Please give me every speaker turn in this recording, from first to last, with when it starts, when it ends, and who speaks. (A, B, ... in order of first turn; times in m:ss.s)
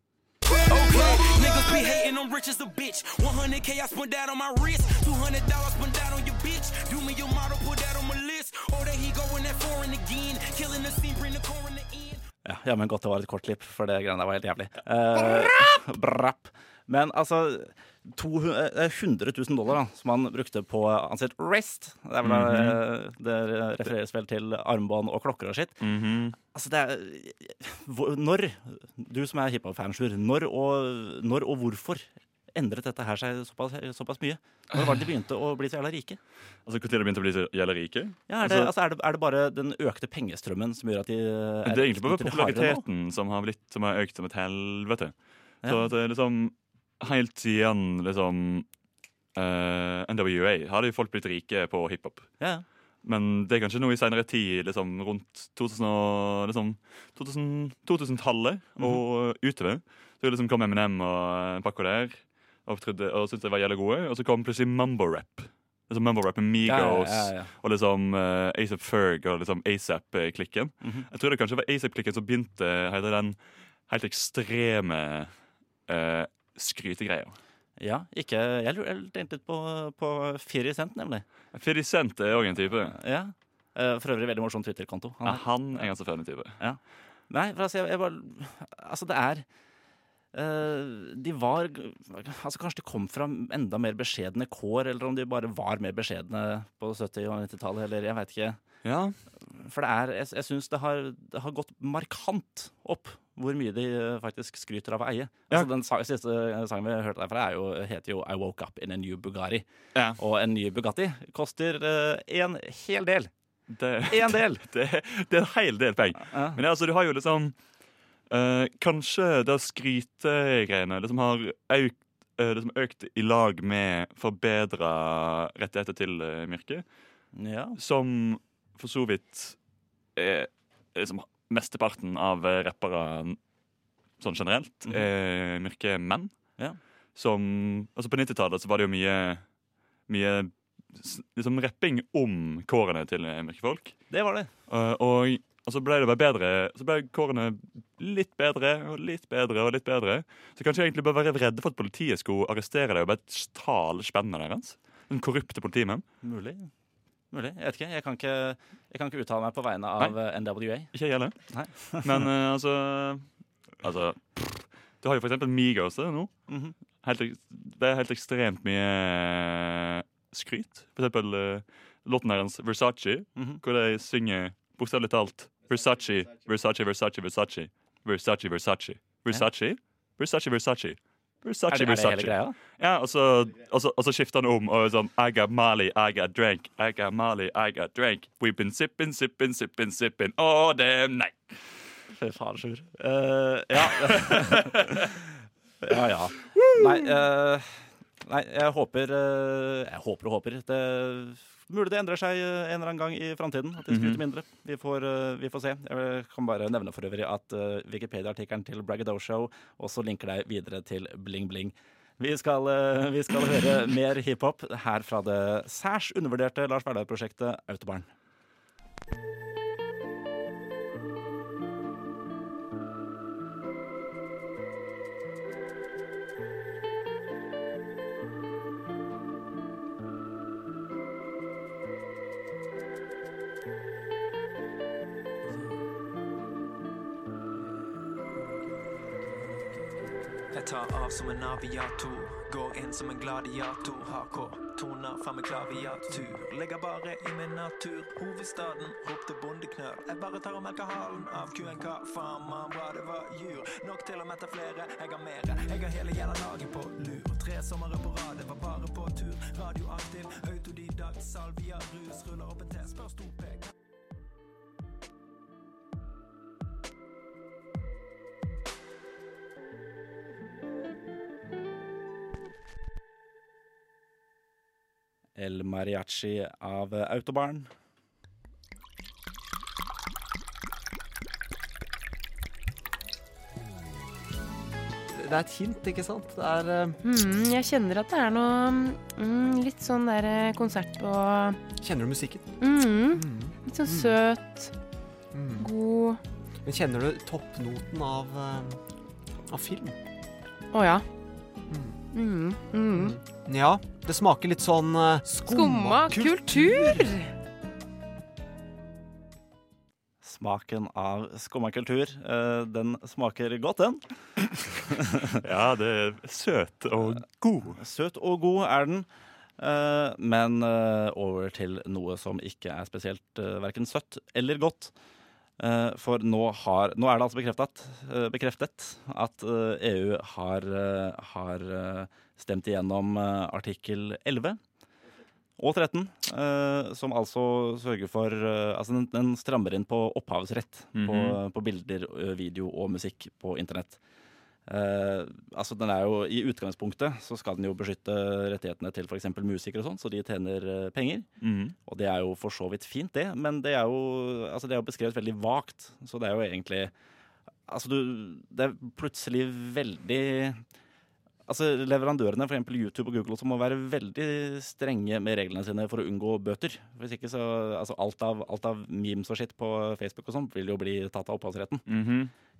0:00.7-0:12.2 A
0:12.4-0:25.8 B
0:22.2-0:22.8 C
0:25.8-0:26.4 C
0:26.5-0:36.2 B
0:36.6-0:38.7 C
0:38.3-0:42.8 B
0:41.6-0:45.1 C
0:45.6-0:45.9 B
0:45.6-0:48.7 C
0:49.3-0:52.3 C
0:52.4-0:52.6 B
0:53.0-1:15.3 C
1:06.6-1:07.5 B
1:10.8-1:11.1 B
1:15.9-1:17.4 C
1:17.8-1:21.2 B
1:21.5-1:23.0 C
1:22.9-1:25.9 B
1:25.2-1:26.6 C
1:26.6-1:29.4 B
1:30.3-1:38.6 B
1:38.8-1:39.2 C
1:39.4-1:49.6 B
1:49.9-1:50.2 C
1:50.2-1:53.3 B
1:53.7-1:57.5 C
1:54.1-1:54.6 B
1:56.2-1:56.6 B
1:58.3-2:06.8 C
2:07.3-2:07.8 B
2:07.8-2:09.6 C
2:10.1-2:13.4 C
2:14.2-2:16.3 C
2:17.1-2:19.4 C
2:20.1-2:24.0 C
2:24.1-2:24.5 B
2:24.7-2:36.0 C
2:36.2-2:36.7 B
2:37.3-2:40.9 B
2:40.9-2:41.4 C
2:41.5-2:42.2 B
2:42.0-2:43.2 C
2:43.8-2:46.3 C
2:46.5-2:46.8 B
2:47.0-3:11.4 C
3:01.7-3:02.6 B
3:12.1-3:15.2 B
3:13.8-3:15.1 C
3:15.8-3:38.1 B
3:16.6-3:17.1 C
3:23.9-3:24.2 C
4:00.5-4:23.7 D
4:35.4-4:37.7 B
4:45.1-4:47.0 E
4:47.0-4:51.6 F
4:51.7-4:54.1 E
4:52.6-4:54.7 F
4:55.3-4:55.7 E
4:55.6-4:56.2 F
4:56.6-4:58.8 E
4:59.5-5:00.0 E
5:00.7-5:01.0 F
5:01.7-5:02.0 E
5:02.1-5:03.2 F
5:02.9-5:07.1 E
5:05.2-5:07.3 F
5:10.2-5:14.0 B
5:14.6-5:15.3 B
5:15.4-5:17.8 C
5:17.8-5:19.0 B
5:19.6-5:24.9 B
5:25.6-5:34.6 B
5:35.6-5:44.0 B
5:40.9-5:41.4 C
5:44.7-5:51.3 B
5:51.4-5:51.7 C
5:51.8-5:56.9 B
5:57.7-6:00.6 B
6:01.5-6:11.8 B
6:11.8-6:12.3 C